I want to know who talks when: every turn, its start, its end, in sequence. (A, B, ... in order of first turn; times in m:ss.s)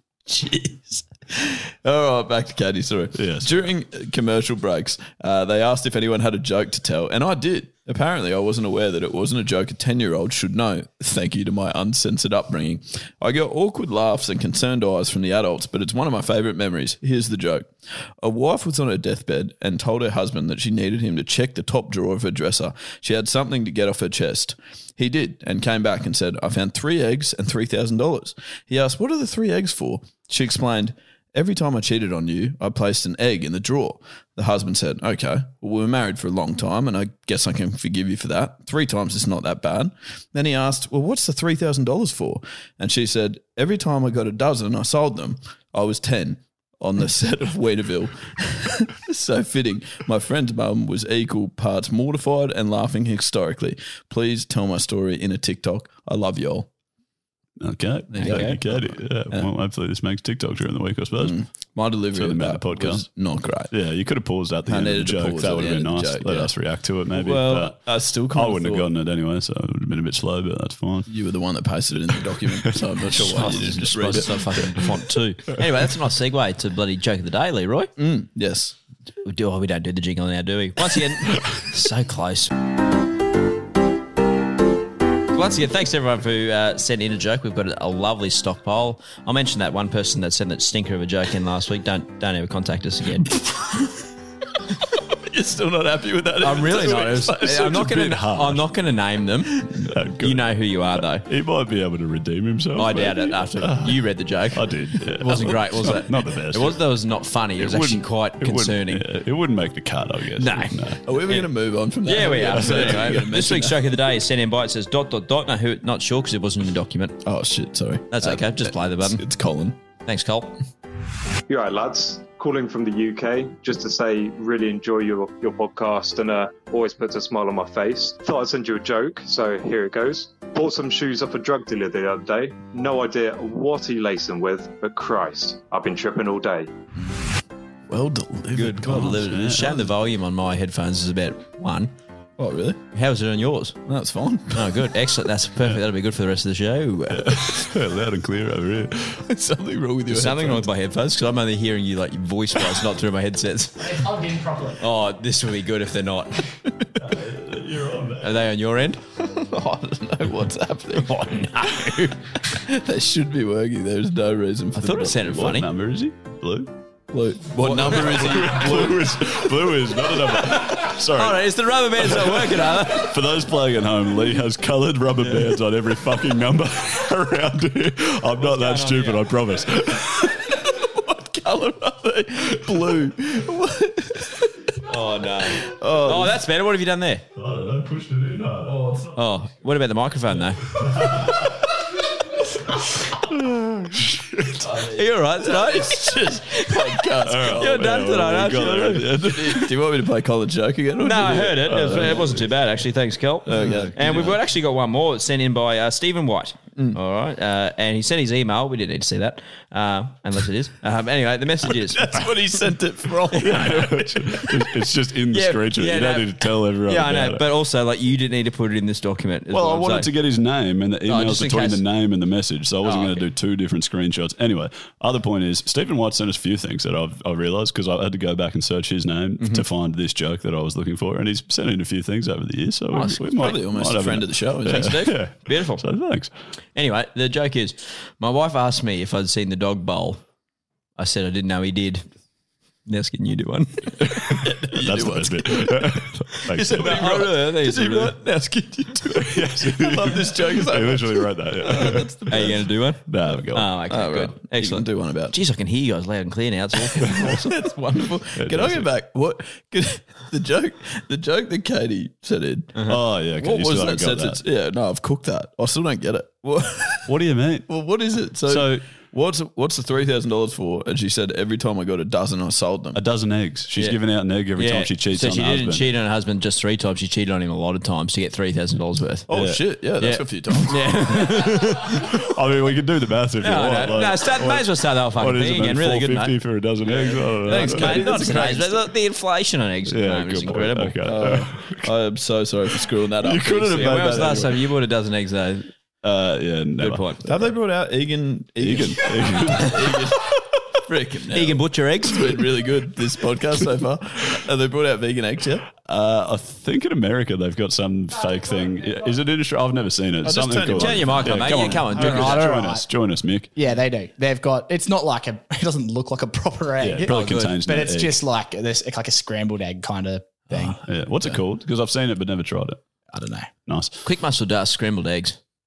0:00.3-0:56.7 A
0:03.2-0:03.6 B
0:57.6-1:01.4 B
0:58.1-0:59.5 A
0:58.2-0:58.6 C
1:01.2-1:03.7 A
1:02.1-1:03.1 B
1:03.7-1:11.1 B
1:04.7-1:06.5 A
1:07.1-1:08.9 A
1:11.1-1:14.7 A
1:13.1-1:17.9 C
1:18.0-1:18.8 A
1:19.2-1:22.5 C
1:25.3-1:33.5 C
1:35.1-1:37.9 A
1:36.4-1:41.2 C
1:37.5-1:38.6 B
1:39.9-1:44.0 B
1:42.8-1:49.0 C
1:44.5-1:46.8 B
1:47.6-1:51.0 B
1:50.4-1:51.5 C
1:51.0-1:54.0 A
1:52.0-1:57.2 C
1:57.2-1:59.8 A
1:58.1-1:59.2 C
2:00.0-2:00.6 C
2:01.5-2:16.7 D
2:17.9-2:19.3 A
2:18.5-2:21.9 C
2:18.9-2:19.8 B
2:22.4-2:22.8 A
2:22.9-2:23.8 C
2:23.9-2:24.8 A
2:24.5-2:27.5 C
2:27.1-2:29.2 B
2:29.2-2:30.7 A
2:30.1-2:34.0 C
2:33.8-2:34.8 E
2:34.8-2:36.5 C
2:37.0-2:38.3 B
2:38.2-2:39.0 C
2:39.2-2:41.3 A
2:41.0-2:42.2 C
2:42.5-2:45.3 A
2:44.8-2:45.7 C
2:45.3-2:46.7 B
2:47.1-2:49.3 A
2:47.6-3:00.4 B
2:51.1-2:53.1 C
2:58.4-2:59.2 C
3:00.5-3:04.6 A
3:04.9-3:07.2 C
3:05.5-3:06.4 A
3:07.4-3:08.8 B
3:08.7-3:09.1 A
3:09.1-3:10.6 C
3:10.8-3:11.4 B
3:14.0-3:14.7 B
3:14.6-3:18.0 A
3:14.9-3:16.7 C
3:17.2-3:19.7 B
3:17.6-3:19.1 C
3:19.1-3:22.2 A
3:21.0-3:32.3 C
3:21.3-3:22.5 B
3:23.5-3:24.3 A
3:23.6-3:24.4 B
3:31.8-3:34.5 A
3:33.4-3:33.8 C
3:33.4-3:37.4 B
3:35.3-3:40.1 C
3:39.5-3:56.3 B
3:41.1-3:41.8 C
3:42.8-3:43.3 C
3:49.4-3:49.6 C
3:52.9-3:53.3 C
3:53.4-3:55.1 A
3:54.7-3:55.8 C
3:56.8-4:00.2 C
4:01.0-4:02.1 C
4:02.9-4:04.1 C
4:04.0-4:07.0 B
4:04.4-4:12.7 A
4:06.7-4:08.1 C
4:09.2-4:13.7 B
4:12.3-4:17.5 C
4:13.9-4:15.4 A
4:17.0-4:22.8 A
4:18.4-4:18.9 B
4:22.9-4:24.4 B
4:23.4-4:27.1 A
4:27.1-4:27.7 B
4:27.7-4:33.0 A
4:28.4-4:28.8 B
4:33.0-4:35.9 B
4:34.6-4:39.3 C
4:39.3-4:41.0 A
4:39.3-4:39.6 B
4:40.0-4:42.1 C
4:42.0-4:48.5 B
4:43.4-4:51.0 C
4:47.5-4:48.9 A
4:49.9-4:51.9 B
4:51.0-4:54.5 A
4:53.2-4:54.6 B
4:53.7-4:55.7 C
4:56.0-4:57.1 B
4:56.8-4:57.3 C
4:57.2-5:05.7 A
4:58.6-4:59.9 B
5:01.3-5:02.3 C
5:05.8-5:13.5 B
5:10.2-5:11.8 A
5:10.8-5:12.5 C
5:11.8-5:12.9 E
5:13.6-5:20.8 E
5:16.8-5:18.2 B
5:17.0-5:17.5 C
5:20.6-5:22.8 B
5:23.1-5:23.5 E
5:23.7-5:24.0 B
5:24.0-5:25.4 C